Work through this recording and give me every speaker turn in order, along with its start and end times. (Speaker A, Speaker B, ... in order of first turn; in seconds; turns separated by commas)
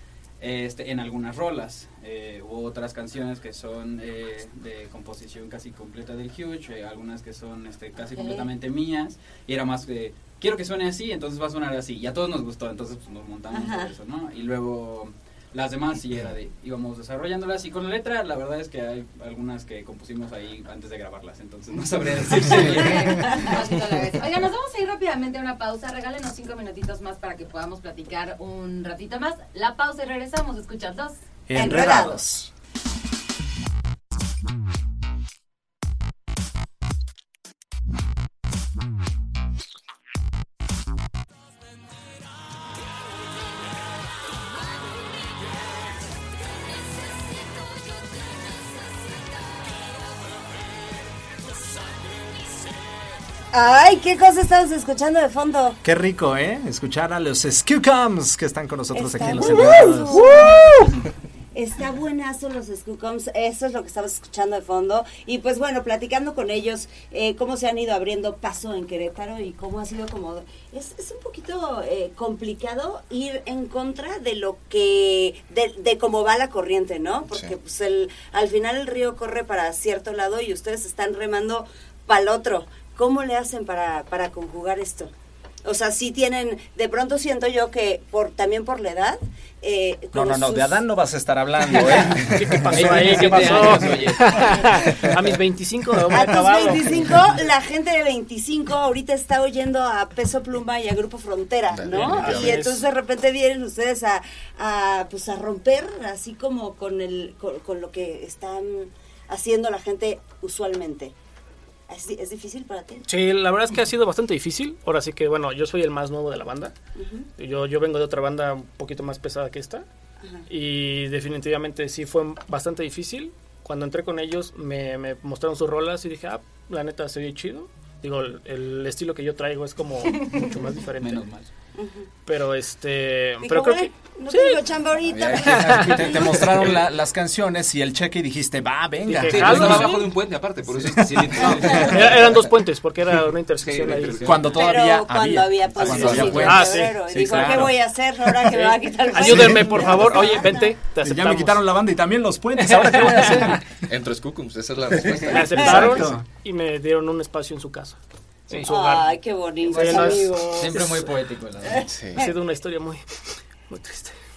Speaker A: 0.4-23.6, Speaker B: 8.2-8.5, Speaker B: 13.5-13.9, Speaker C: 22.4-31.2, Speaker D: 31.5-32.5, Speaker B: 31.5-32.2, Speaker B: 53.5-55.8, Speaker D: 55.8-60.9, Speaker B: 58.9-61.0, Speaker B: 61.5-85.1, Speaker E: 77.3-77.6, Speaker B: 85.6-90.9, Speaker D: 90.1-94.1, Speaker A: 91.9-95.0, Speaker F: 92.2-97.1, Speaker D: 94.9-95.2, Speaker B: 96.1-111.1, Speaker E: 101.7-102.6, Speaker F: 102.0-102.8, Speaker B: 111.9-113.1, Speaker F: 113.1-116.7, Speaker B: 117.0-117.3, Speaker F: 117.4-119.9, Speaker F: 120.5-131.2, Speaker A: 131.0-131.5, Speaker B: 131.8-132.1, Speaker F: 132.3-134.7, Speaker B: 133.4-136.5, Speaker D: 135.2-140.0, Speaker F: 135.6-136.5, Speaker F: 139.1-140.1, Speaker G: 139.2-142.2, Speaker D: 140.7-142.0, Speaker F: 141.8-144.5, Speaker G: 143.6-144.6, Speaker D: 144.2-147.8, Speaker B: 144.5-150.8, Speaker E: 145.8-146.6, Speaker F: 146.1-147.0, Speaker F: 148.5-151.6, Speaker D: 149.2-150.0, Speaker D: 151.0-153.7, Speaker F: 152.8-153.5, Speaker E: 153.9-156.0, Speaker F: 155.2-158.0, Speaker D: 155.6-156.2, Speaker F: 158.5-161.1, Speaker B: 158.5-160.8, Speaker A: 159.7-161.9, Speaker E: 161.8-162.3, Speaker F: 162.2-164.2